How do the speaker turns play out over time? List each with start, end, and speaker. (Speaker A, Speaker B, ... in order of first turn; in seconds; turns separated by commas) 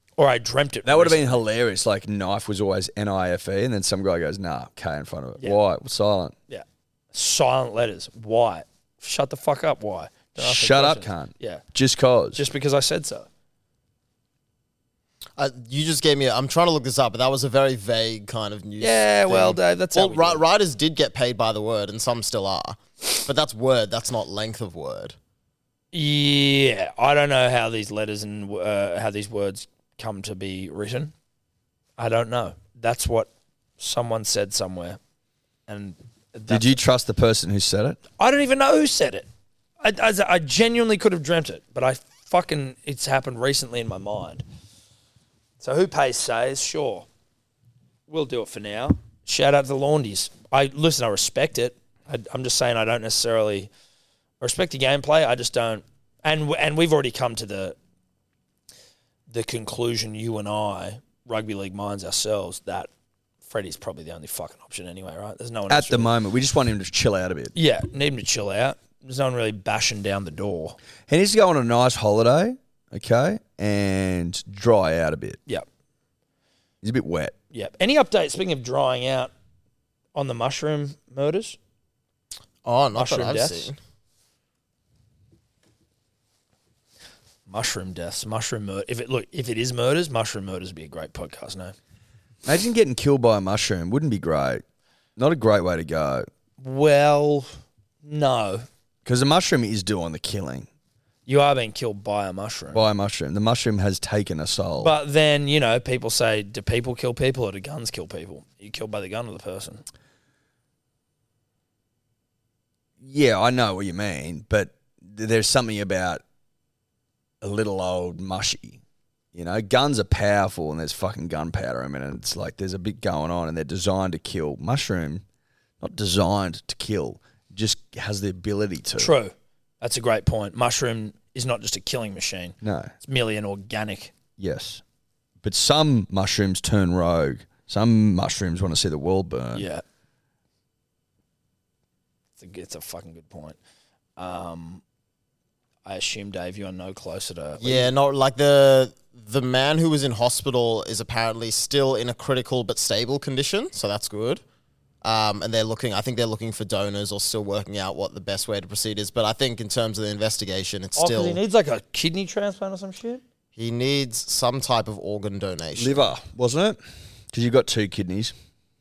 Speaker A: 0.2-1.4, Speaker B: 0.8-6.3, Speaker A: 6.5-11.6, Speaker B: 10.4-12.5, Speaker A: 12.3-13.3, Speaker C: 15.4-25.2, Speaker A: 18.8-20.4, Speaker A: 25.9-31.1, Speaker A: 32.0-35.0, Speaker A: 35.7-36.8, Speaker B: 36.5-38.0, Speaker A: 38.2-39.3, Speaker A: 39.8-44.4, Speaker A: 45.6-47.1, Speaker A: 48.1-53.7, Speaker A: 54.4-57.8, Speaker A: 59.3-62.9, Speaker A: 63.5-66.1, Speaker B: 65.7-67.5, Speaker A: 67.5-70.8, Speaker B: 71.1-75.4, Speaker B: 76.8-77.3, Speaker A: 77.5-79.3, Speaker A: 80.2-81.6, Speaker C: 82.7-83.8, Speaker A: 83.0-83.7, Speaker A: 87.5-91.8, Speaker B: 92.4-94.6, Speaker B: 95.2-96.3, Speaker A: 96.6-98.7, Speaker B: 99.0-100.7, Speaker A: 101.3-102.9, Speaker B: 102.7-104.9, Speaker A: 104.8-109.8, Speaker B: 113.0-116.2, Speaker B: 117.4-118.8, Speaker B: 119.3-125.2, Speaker B: 125.8-129.1, Speaker A: 129.0-134.1, Speaker B: 132.6-132.9, Speaker B: 134.4-134.8, Speaker B: 135.4-139.7, Speaker A: 139.5-139.8, Speaker A: 142.4-143.6, Speaker A: 144.2-144.8, Speaker A: 145.9-147.9, Speaker C: 147.6-154.4, Speaker C: 155.0-161.4, Speaker A: 161.0-163.2, Speaker C: 163.6-166.0, Speaker B: 165.8-166.8, Speaker B: 167.3-168.3